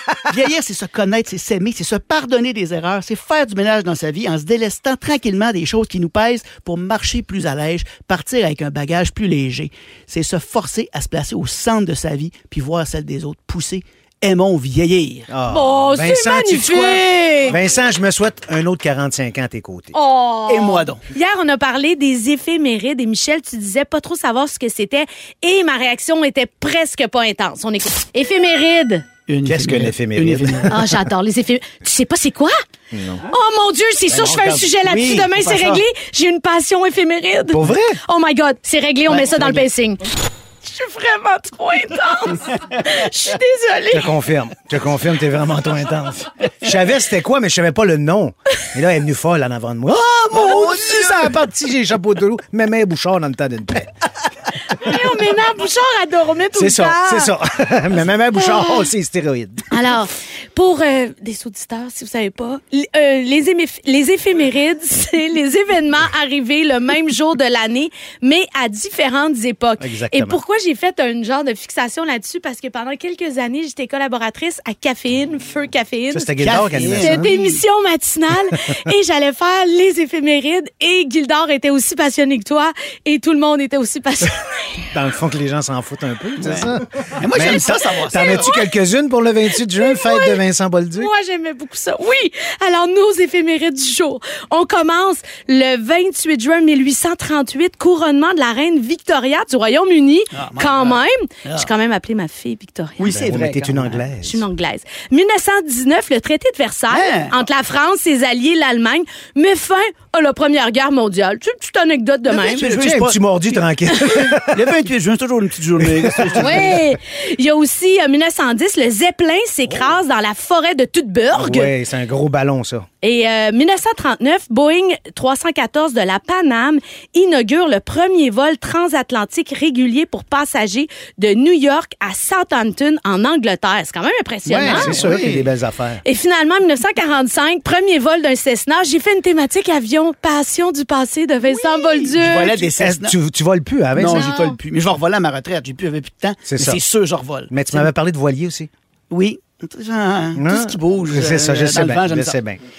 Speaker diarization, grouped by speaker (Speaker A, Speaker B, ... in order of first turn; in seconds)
Speaker A: 0.3-15.3, 20.5-21.0, 29.3-30.8, 34.6-35.8, 39.1-39.7, 50.3-51.3, 76.4-77.6, 86.4-88.5, 100.3-101.7, 103.0-104.0, 106.9-107.3, 112.3-116.8, 134.5-135.5, 141.5-143.2, 143.9-147.9, 149.1-152.4
Speaker B: 15.3-19.9, 29.4-31.0, 32.9-33.2, 34.1-34.7, 37.5-38.0, 43.9-53.9, 56.5-59.7, 69.8-70.4, 76.1-77.3, 84.9-91.1, 103.1-104.4, 112.6-114.8, 115.8-116.8, 121.3-122.9, 134.6-136.0, 142.8-144.3, 146.5-146.8, 147.5-148.7, 150.3-152.6
Speaker C: 15.5-17.5, 19.9-29.1, 30.7-32.6, 33.3-40.1, 40.6-44.1, 54.7-57.3, 58.3-58.9, 59.7-76.4, 77.0-84.9, 88.2-88.7, 89.8-90.4, 91.0-103.1, 104.2-112.7, 116.4-121.7, 123.0-135.0, 136.0-142.6, 144.1-144.6